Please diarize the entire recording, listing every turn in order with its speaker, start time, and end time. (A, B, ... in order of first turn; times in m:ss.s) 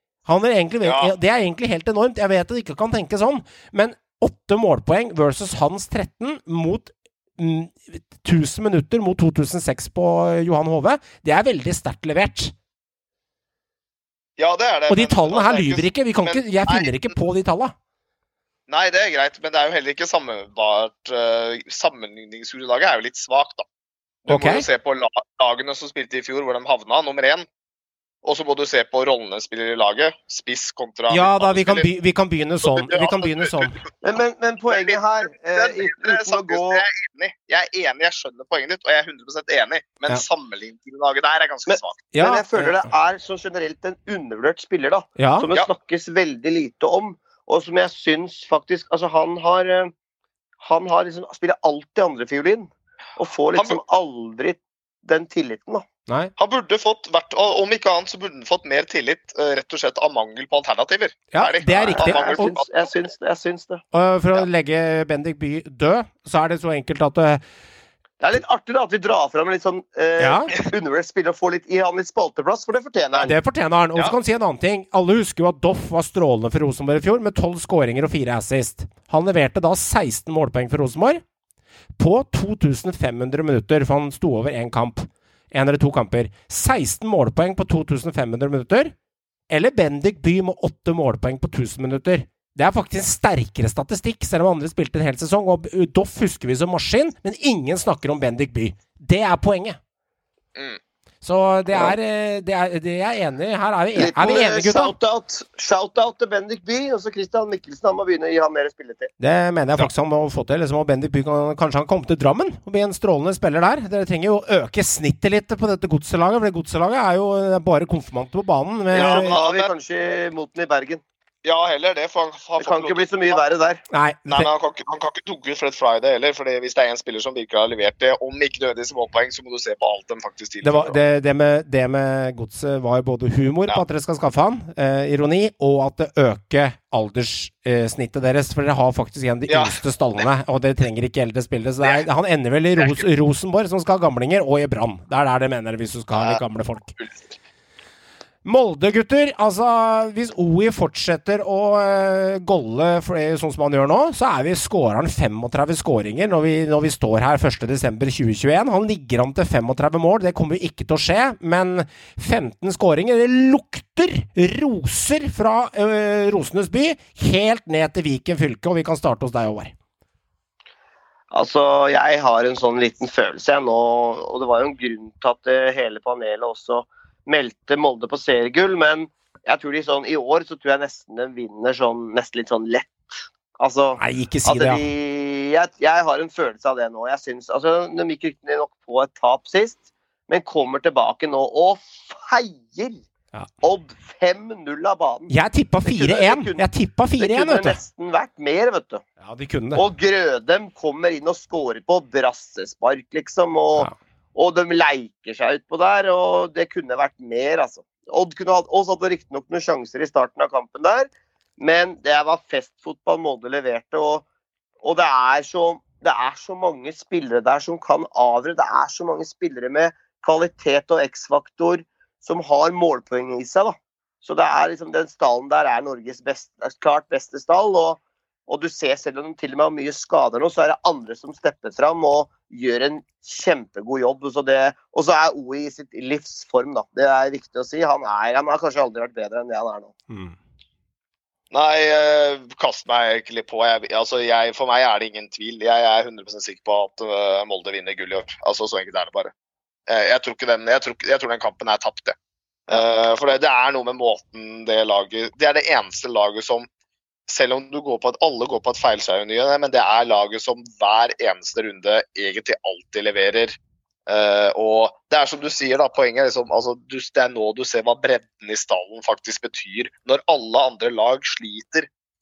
0:00.3-0:12.5 A
0:00.8-0:01.1 B
0:14.4-0:16.9 B
0:14.9-0:17.7 A
0:18.7-0:23.6 B
0:24.3-0:27.5 B
0:24.3-0:24.6 A
0:28.2-0:31.9 B
0:31.1-0:33.8 A
0:32.6-0:33.9 B
0:34.0-0:36.8 C
0:34.7-0:35.0 B
0:35.6-0:42.0 B
0:41.7-0:49.9 C
0:42.1-0:42.8 A
0:45.2-0:45.5 A
0:50.6-0:55.8 C
0:56.4-1:02.7 B
1:01.3-1:02.5 A
1:01.9-1:03.8 C
1:03.9-1:07.4 A
1:08.2-1:13.3 C
1:10.2-1:10.6 A
1:13.2-1:21.2 A
1:22.0-1:28.9 A
1:29.5-1:39.8 A
1:41.2-1:44.9 A
1:44.0-1:49.1 C
1:49.2-1:59.4 A
1:58.9-1:59.7 B
1:58.9-2:01.0 C
2:01.4-2:03.4 B
2:02.6-2:03.8 C
2:03.9-2:04.5 A
2:04.3-2:11.0 B
2:10.6-2:26.9 A
2:19.5-2:19.8 B
2:22.8-2:23.0 B
2:26.2-2:26.4 B
2:27.0-2:27.3 B
2:28.4-2:49.7 A
2:51.3-3:13.0 C
3:04.0-3:04.8 A
3:13.6-3:15.3 C
3:15.3-3:17.8 A
3:15.8-3:16.6 C
3:17.2-3:19.0 C
3:19.2-3:19.8 A
3:19.7-3:34.2 C
3:34.8-3:59.9 C
4:00.1-4:00.4 A
4:01.5-4:09.3 B
4:09.9-4:12.2 B
4:12.7-4:16.7 B
4:17.3-4:31.9 B